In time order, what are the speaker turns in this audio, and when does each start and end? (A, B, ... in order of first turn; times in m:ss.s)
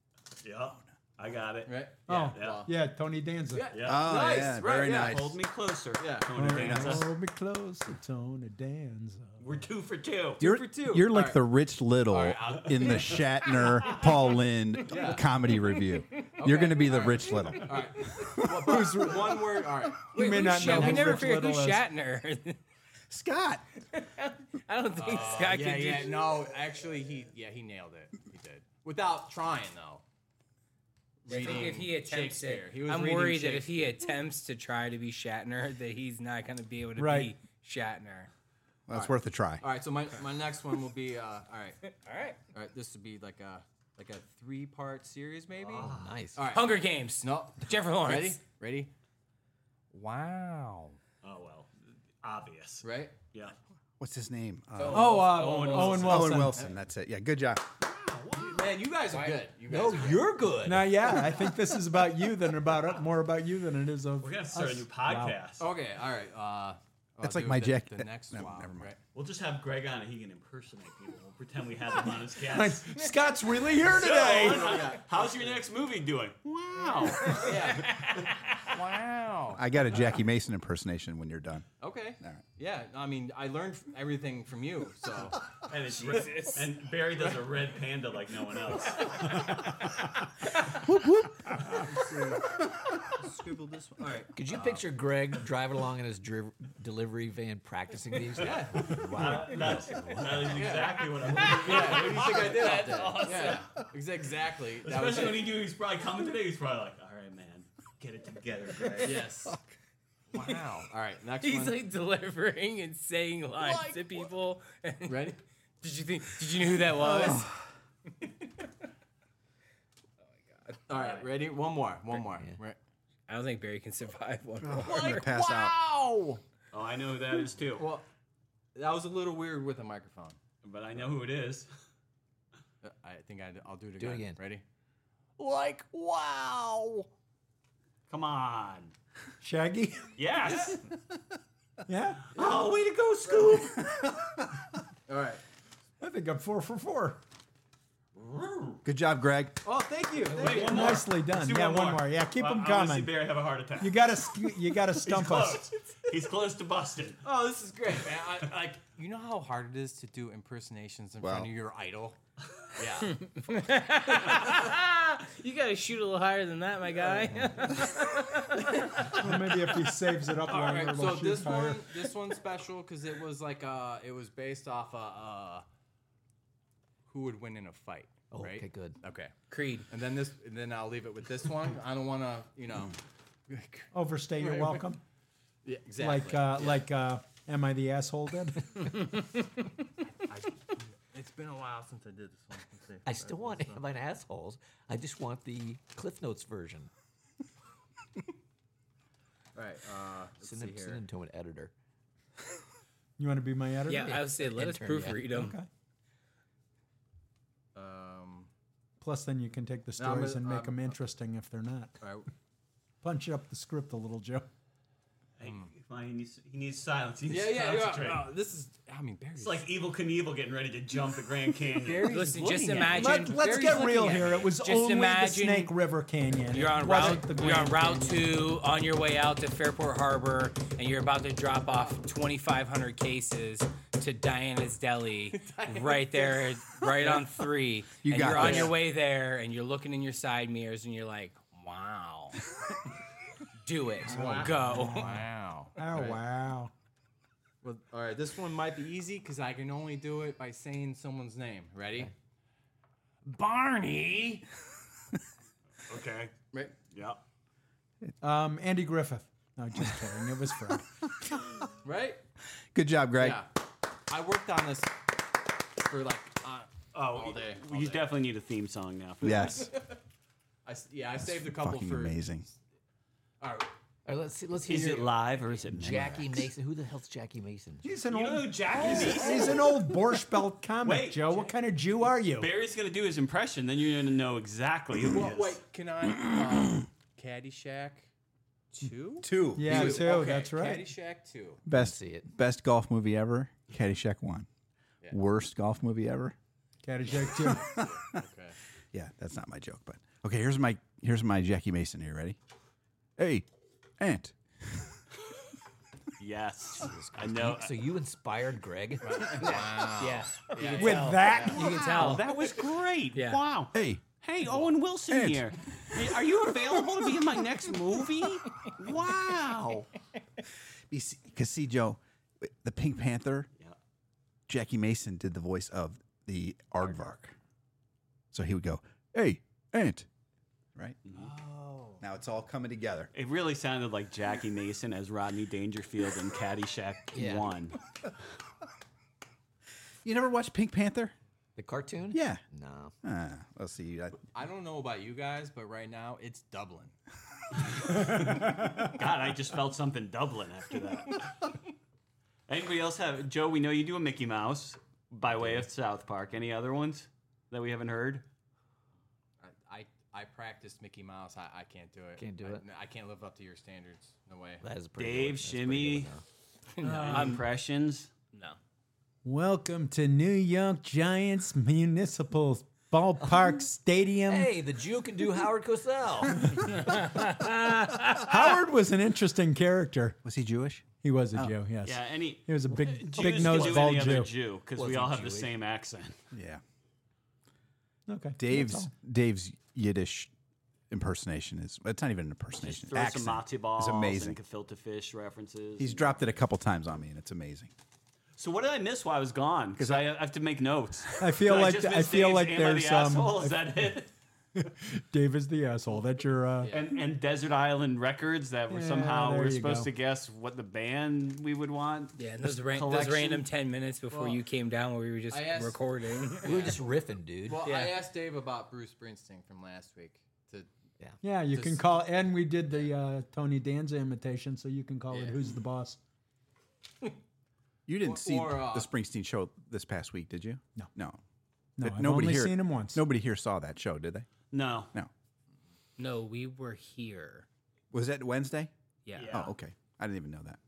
0:00.4-0:01.8 A
0:01.6-0:02.7 B
0:02.1-0:03.6 C
0:02.3-0:02.6 A
0:03.5-0:05.4 B
0:03.7-0:07.1 A
0:03.8-0:05.4 D
0:06.0-0:06.8 B
0:06.3-0:09.6 C
0:06.6-0:07.0 D
0:09.4-0:10.6 A
0:10.4-0:18.7 D
0:10.4-0:11.4 B
0:12.1-0:13.9 B
0:14.9-0:15.3 B
0:15.6-0:16.2 E
0:16.4-0:21.2 B
0:18.6-0:19.4 C
0:20.0-0:21.8 C
0:20.2-0:22.6 E
0:23.1-0:23.6 D
0:23.9-0:26.3 E
0:24.9-0:30.0 B
0:31.2-0:33.9 B
0:31.3-0:38.3 E
0:37.0-0:37.3 C
0:38.9-0:39.6 D
0:38.9-0:41.8 B
0:41.9-0:42.4 E
0:42.5-0:48.9 B
0:45.5-0:46.2 A
0:45.8-0:46.4 F
0:46.5-0:48.4 E
0:49.9-0:51.0 B
0:51.2-0:51.7 A
0:52.2-0:53.5 A
0:52.8-0:53.2 B
0:54.0-0:55.2 D
0:54.8-0:56.7 B
0:54.8-0:56.4 A
0:54.9-0:56.6 C
0:55.9-0:57.7 D
0:57.8-0:58.8 A
0:58.4-1:00.5 B
0:59.7-1:01.3 F
1:00.6-1:05.4 C
1:04.2-1:05.7 A
1:05.6-1:09.0 B
1:07.2-1:08.9 D
1:09.1-1:13.0 A
1:12.4-1:14.9 C
1:13.8-1:18.2 A
1:14.0-1:15.7 B
1:16.7-1:20.3 B
1:17.2-1:18.3 E
1:19.5-1:21.7 D
1:21.8-1:26.7 B
1:25.6-1:30.0 A
1:28.8-1:29.0 B
1:30.8-1:31.6 D
1:31.7-1:32.4 B
1:33.2-1:34.8 B
1:34.3-1:40.8 F
1:38.4-1:45.6 B
1:39.0-1:43.8 A
1:41.5-1:43.6 E
1:44.8-1:49.3 A
1:49.0-1:49.6 B
1:50.3-1:51.9 B
1:51.4-1:57.6 E
1:53.5-1:54.3 B
1:55.0-1:55.4 B
1:57.0-1:57.4 B
1:57.0-1:57.4 D
1:58.2-1:58.7 E
2:00.5-2:00.8 E
2:00.9-2:02.8 B
2:00.9-2:01.2 A
2:03.3-2:05.2 E
2:04.6-2:05.8 D
2:04.6-2:06.4 B
2:06.7-2:07.9 A
2:07.7-2:08.1 B
2:08.7-2:10.4 B
2:10.6-2:11.7 A
2:12.8-2:14.6 B
2:14.0-2:14.4 F
2:15.4-2:17.1 B
2:18.1-2:18.9 A
2:19.4-2:20.1 C
2:20.1-2:20.8 A
2:20.4-2:20.8 B
2:21.9-2:22.4 C
2:22.3-2:23.9 A
2:22.4-2:23.7 B
2:25.1-2:25.4 B
2:26.0-2:27.2 C
2:28.1-2:28.8 A
2:28.8-2:29.6 D
2:29.6-2:31.1 B
2:30.1-2:33.2 C
2:30.3-2:34.0 A
2:33.8-2:35.7 C
2:35.0-2:37.2 A
2:37.2-2:42.2 B
2:41.2-2:41.5 D
2:42.8-2:43.3 B
2:43.0-2:49.2 E
2:47.0-2:47.8 B
2:48.8-2:49.2 B
2:49.0-2:51.9 C
2:50.4-2:55.6 B
2:57.1-2:59.3 B
2:58.3-2:59.0 F
2:59.5-2:59.9 E
2:59.9-3:03.0 B
3:03.5-3:04.9 B
3:03.9-3:05.0 C
3:05.6-3:06.9 B
3:06.0-3:08.7 C
3:10.1-3:13.8 B
3:13.0-3:16.9 F
3:19.5-3:21.0 B
3:20.4-3:21.7 F
3:23.2-3:24.2 C
3:23.9-3:25.6 E
3:23.9-3:25.2 F
3:25.3-3:25.7 C
3:27.7-3:28.5 B
3:29.0-3:32.0 C
3:30.0-3:30.9 B
3:32.0-3:32.3 B
3:33.0-3:34.5 C
3:35.4-3:38.3 A
3:35.4-3:35.7 B
3:37.3-3:39.7 B
3:39.4-3:42.2 A
3:41.6-3:44.5 B
3:42.0-3:45.7 E
3:42.9-3:48.2 C
3:46.5-3:48.2 B
3:46.5-4:02.4 E
3:55.3-3:57.5 B
3:58.0-3:58.8 D
3:58.2-3:58.8 B
4:03.6-4:05.2 E
4:04.0-4:06.2 B
4:04.1-4:05.0 C
4:05.8-4:06.7 C
4:07.6-4:12.1 B
4:13.2-4:14.4 E
4:15.8-4:17.2 A
4:16.5-4:16.8 B
4:18.2-4:20.9 C
4:21.8-4:22.2 B
4:22.7-4:23.4 D
4:23.2-4:23.5 B
4:24.1-4:25.1 B
4:25.8-4:28.2 B
4:26.9-4:29.7 A
4:29.2-4:29.7 D
4:29.3-4:30.0 B
4:30.6-4:32.6 B
4:31.2-4:32.4 D
4:33.4-4:33.7 B
4:34.0-4:38.0 F
4:34.6-4:36.5 A
4:37.8-4:42.5 C
4:38.1-4:39.7 A
4:38.7-4:39.5 B
4:38.8-4:39.3 F
4:40.8-4:41.3 A
4:42.3-4:45.6 A
4:45.1-4:48.1 B
4:48.7-4:51.6 B
4:49.2-4:50.1 D
4:49.5-4:50.9 C
4:51.6-4:54.5 D
4:51.7-4:52.3 F
4:55.1-4:56.3 D
4:56.8-4:57.7 C
4:57.1-4:58.6 B
4:57.6-4:58.2 D
4:58.9-5:02.4 D
5:03.2-5:03.4 D
5:04.0-5:05.0 D
5:06.2-5:07.7 A
5:06.8-5:09.6 F
5:09.0-5:12.0 B
5:10.0-5:12.5 E
5:10.8-5:12.2 C
5:11.5-5:19.9 A
5:13.1-5:13.4 E
5:13.7-5:14.0 D
5:14.4-5:14.7 B
5:15.1-5:16.1 D
5:20.9-5:23.5 D
5:24.5-5:27.4 D
5:28.3-5:30.1 D
5:31.0-5:31.3 A
5:31.1-5:32.0 B
5:32.0-5:33.1 D
5:33.1-5:37.8 A
5:37.1-5:37.5 F
5:40.0-5:41.1 D
5:41.6-5:42.9 F
5:42.1-5:42.4 D
5:43.0-5:44.2 D
5:44.3-5:46.9 B
5:47.5-5:51.2 A
5:52.5-5:58.2 A
5:59.4-6:04.6 B
6:02.2-6:02.6 F
6:04.6-6:06.2 F
6:05.0-6:06.1 A
6:06.8-6:07.4 E
6:06.8-6:08.1 A
6:08.3-6:08.6 E
6:09.2-6:14.5 C
6:14.3-6:16.8 F
6:16.9-6:18.4 E
6:18.1-6:20.2 C
6:20.2-6:21.5 D
6:21.0-6:24.3 C
6:21.8-6:26.2 A
6:23.4-6:23.7 F
6:24.7-6:25.6 F
6:26.3-6:26.6 D
6:28.1-6:28.9 C
6:28.4-6:30.3 D
6:30.9-6:34.4 D
6:32.6-6:36.3 A
6:35.8-6:37.7 D
6:38.4-6:44.1 A
6:39.8-6:40.0 D
6:41.2-6:43.9 C
6:44.6-6:46.7 C
6:46.6-6:47.0 B
6:46.7-6:53.4 A
6:48.7-6:49.9 C
6:52.2-6:56.8 E
6:52.9-6:53.2 B
6:54.1-6:54.4 B
6:55.3-6:55.8 B
6:56.4-6:56.8 B
6:56.4-6:57.6 F
6:57.4-7:00.7 B
6:57.6-6:58.0 E
7:01.2-7:06.0 C
7:01.5-7:01.8 B
7:05.1-7:05.6 B
7:07.9-7:11.2 D
7:08.0-7:08.9 B
7:11.8-7:13.0 C
7:11.8-7:14.3 D
7:14.5-7:14.9 A
7:16.0-7:17.5 E
7:17.9-7:18.7 D
7:19.0-7:19.4 E
7:19.1-7:19.5 A
7:19.3-7:20.6 D